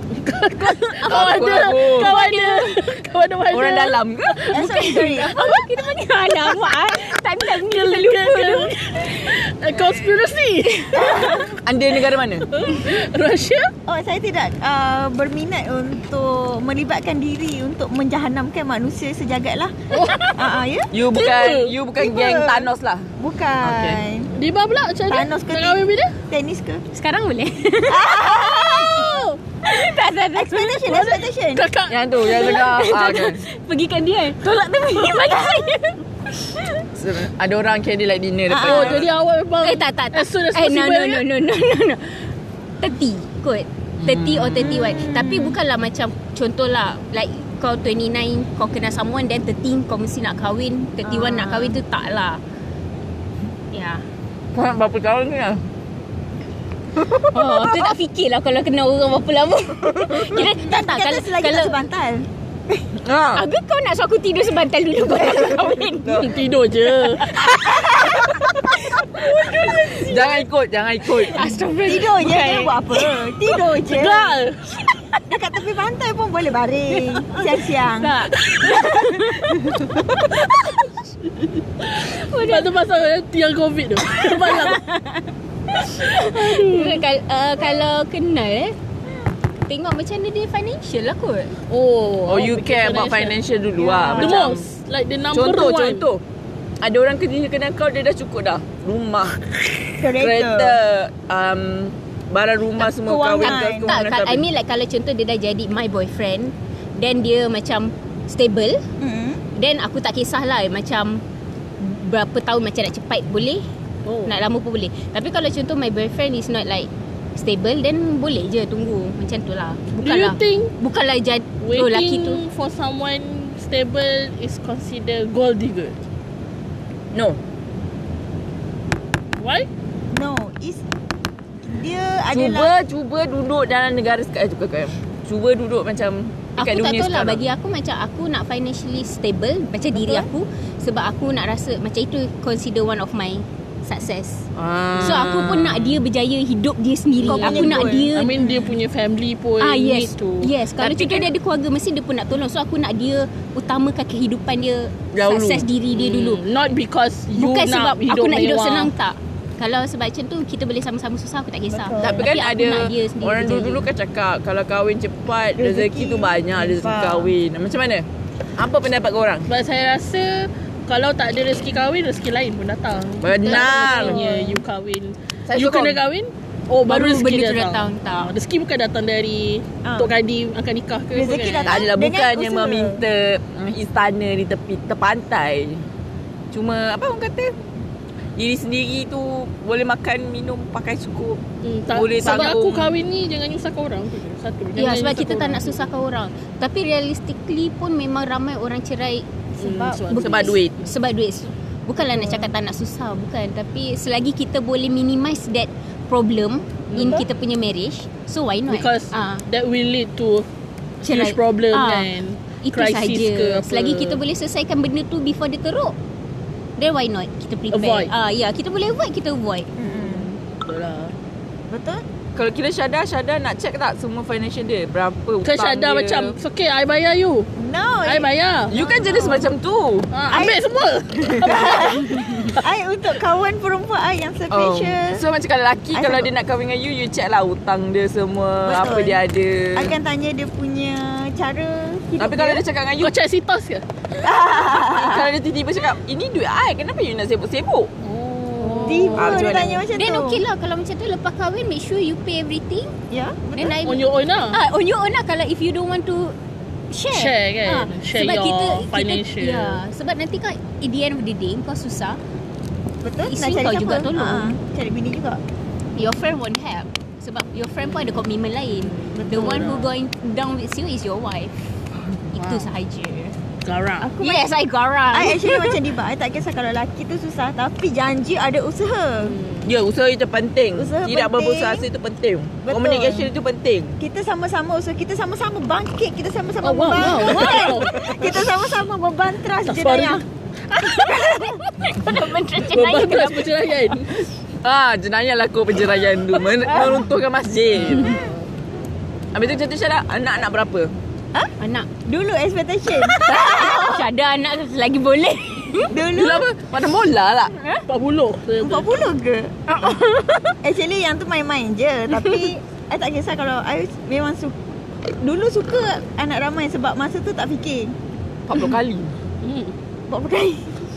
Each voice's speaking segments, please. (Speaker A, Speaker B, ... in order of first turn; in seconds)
Speaker A: 0.1-5.7, 6.3-11.6, 12.5-13.7, 19.9-20.5, 21.1-21.7, 24.3-26.1, 28.8-29.4, 30.9-32.0, 38.5-41.3, 66.1-67.6, 69.2-70.3, 73.5-74.6, 80.6-84.8, 86.2-87.0, 91.7-93.4, 94.1-96.0, 114.0-114.3, 120.0-120.7, 121.6-126.0, 129.4-129.7, 147.3-150.5, 155.9-158.9, 169.5-181.9, 191.6-195.9, 199.6-200.6, 206.9-207.2, 208.7-210.5, 211.0-214.2, 217.7-218.1, 219.8-221.1, 225.4-227.5, 228.0-228.7, 230.1-232.6, 243.0-243.8, 248.0-249.7, 253.8-254.6, 257.1-259.8, 267.8-269.9, 272.3-272.7, 273.6-274.1, 279.2-279.7, 286.6-288.5, 289.6-290.2, 292.6-294.3, 297.8-298.4, 307.9-308.9, 319.4-319.7
Speaker B: 0.6-3.0, 4.5-9.3, 26.9-28.2, 29.6-31.0, 32.2-36.7, 39.6-52.4, 53.7-54.0, 57.3-61.8, 63.3-66.3, 67.2-68.2, 69.2-70.0, 71.2-73.0, 76.9-80.3, 82.0-82.7, 84.2-88.8, 89.6-91.5, 103.0-108.8, 109.5-111.2, 111.8-113.6, 114.3-122.4, 136.6-148.5, 149.6-156.4, 157.3-163.9, 176.9-178.3, 194.8-209.4, 211.0-212.1, 212.6-216.0, 216.8-219.7, 248.6-249.1, 249.9-252.9, 253.6-256.4, 256.9-262.2, 263.2-264.5, 266.0-271.6, 272.3-273.3, 274.2-275.8, 290.7-293.7, 301.6-301.9, 303.1-305.9, 309.7-310.6, 312.1-312.4
Speaker C: 1.0-2.1, 3.5-4.5, 11.6-12.5, 20.9-23.1, 23.6-24.0, 31.9-33.4, 34.4-35.2, 36.9-39.1, 44.0-45.1, 54.5-55.6, 57.0-57.7, 60.0-60.4, 63.0-63.4, 64.9-66.3, 67.7-68.5, 70.0-71.5, 92.3-94.7, 95.3-96.2, 96.8-104.4, 127.1-127.4, 132.3-137.4, 144.6-146.0, 150.8-151.3, 155.1-155.7, 162.0-168.1, 168.6-169.5, 173.2-174.2, 175.5-176.0, 181.6-185.8, 186.5-187.6, 188.3-193.0, 200.1-200.7, 222.3-226.4, 228.7-230.1, 234.5-240.0, 242.2-243.1, 244.5-247.9, 249.1-249.8, 279.6-284.0, 294.6-298.2, 299.3-300.9, 303.1-303.8, 306.1-307.5, 318.4-319.1
Speaker D: 4.5-5.3, 10.9-11.6, 13.9-20.9, 22.0-24.3, 25.1-26.8, 27.9-29.2, 30.3-31.7, 38.5-39.1, 44.6-45.6, 51.0-51.8, 60.4-62.3, 71.8-74.4, 75.3-80.1, 93.8-94.4, 100.0-100.8, 103.0-103.9, 109.0-109.4, 130.1-130.8, 131.6-132.7, 139.9-140.3, 147.2-148.7, 161.7-162.3, 165.6-167.3, 173.5-174.6, 179.8-180.1, 181.1-183.0, 202.0-202.5, 219.8-220.3, 221.7-222.0, 227.6-229.5, 230.3-230.6, 231.1-235.2, 235.9-236.3, 238.6-239.2, 239.7-242.6, 244.2-245.2, 248.8-250.4, 253.1-253.8, 263.0-265.4, 269.3-269.6, 274.0-274.5, 275.1-279.3, 280.8-281.8, 282.6-283.3, 284.0-290.2, 302.0-304.1, 305.8-306.5, 308.6-309.6, 310.6-314.6, 315.2-317.9, 320.1-320.8